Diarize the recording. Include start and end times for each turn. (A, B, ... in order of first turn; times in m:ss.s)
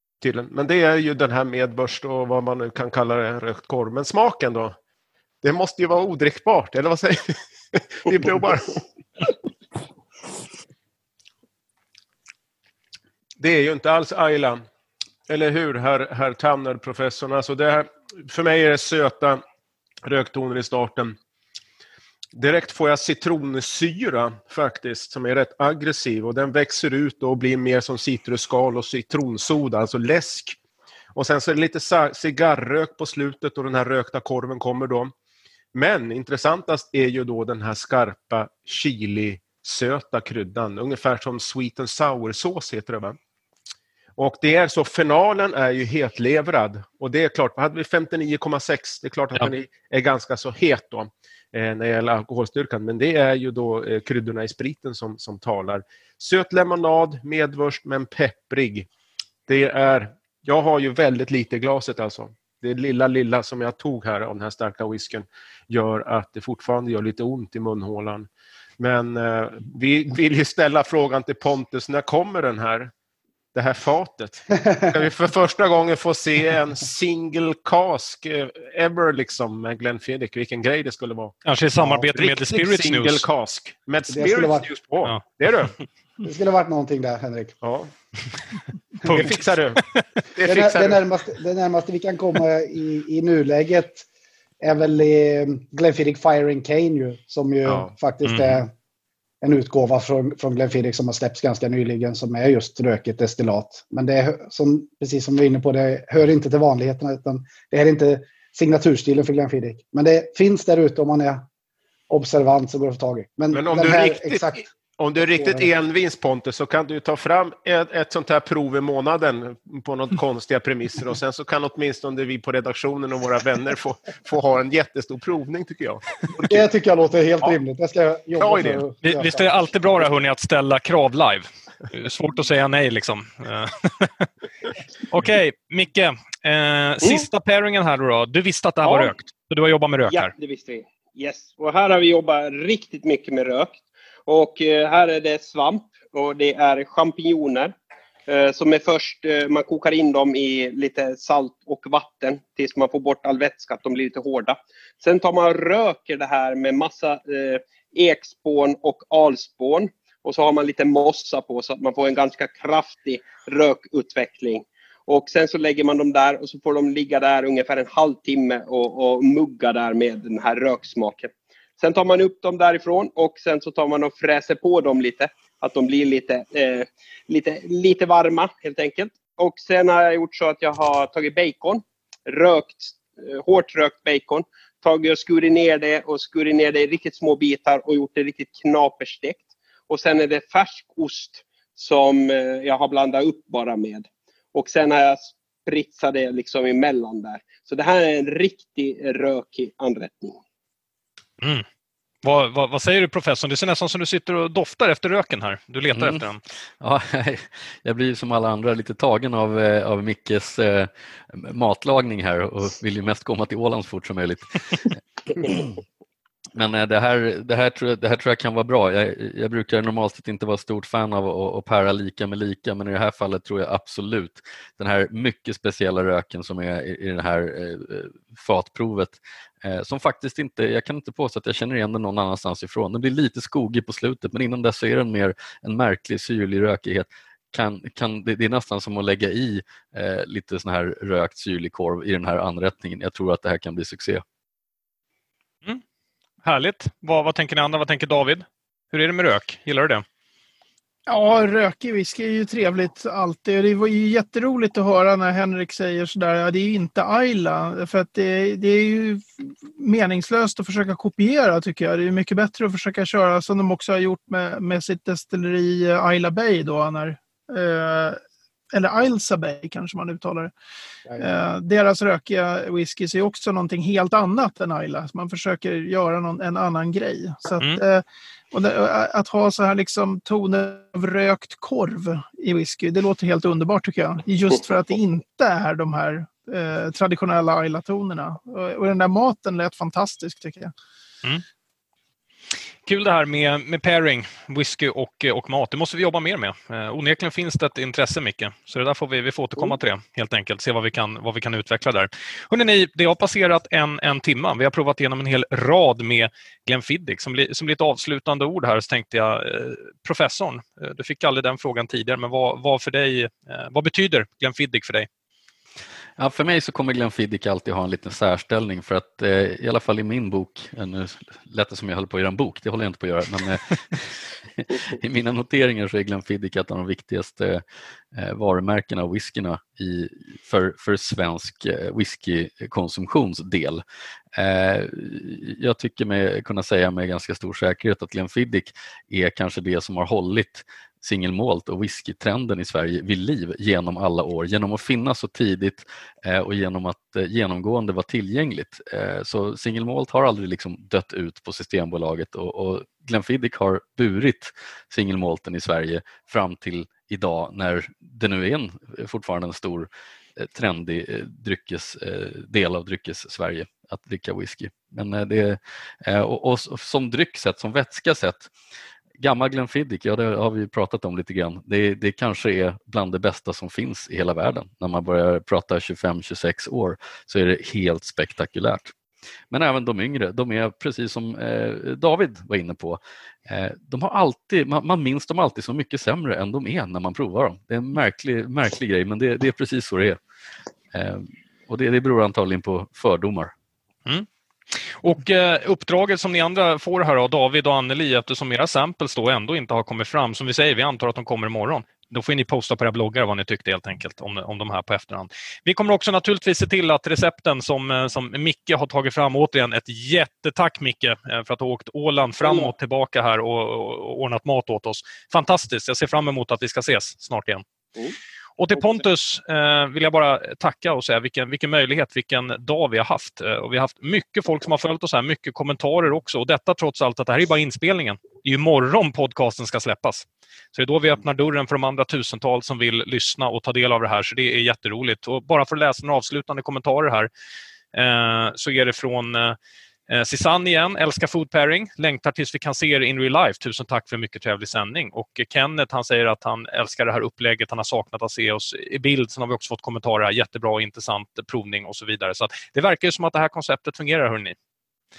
0:00.2-0:04.7 A
0:05.4-0:08.8 A
0:13.4-0:14.6 A
0:15.3-0:19.4 A
0:20.0-0:21.1 A
0:22.3-0:30.6 A
0:31.1-0:35.1 A
0:35.7-0:43.2 A
0:44.2-0:58.9 A
0:59.5-1:12.9 A
1:13.5-1:25.7 A
1:14.6-1:14.9 B
1:21.4-1:23.2 C
1:24.1-1:24.7 B
1:26.2-1:27.5 B
1:27.6-1:27.9 A
1:29.0-1:30.0 C
1:29.1-1:31.0 A
1:30.4-1:34.0 B
1:34.6-1:38.7 B
1:37.6-1:37.9 A
1:38.2-1:38.6 C
1:39.4-1:51.4 B
1:52.1-1:54.6 B
1:53.5-2:06.6 A
1:55.3-1:55.7 B
2:06.4-2:09.5 B
2:08.4-2:08.8 A
2:09.0-2:14.3 C
2:15.1-2:20.3 C
2:17.0-2:17.3 D
2:18.8-2:19.1 D
2:20.1-2:27.7 D
2:28.3-3:20.4 D
3:22.2-3:26.4 C
3:25.9-3:26.2 E
3:26.8-3:35.7 E
3:36.6-4:04.2 E
4:06.4-4:10.0 C
4:11.1-4:28.2 F
4:28.7-4:30.5 F
4:31.2-4:50.7 F
4:52.8-5:15.1 C
5:16.2-5:27.6 E
5:28.1-5:33.8 E
5:34.4-6:08.5 E
6:09.2-6:18.9 E
6:19.5-6:30.2 E
6:30.9-6:33.5 E
6:35.0-6:57.6 C
6:52.4-6:52.7 D
6:58.6-7:17.3 C
6:58.7-6:59.0 D
7:17.9-7:19.6 C
7:20.1-7:34.6 C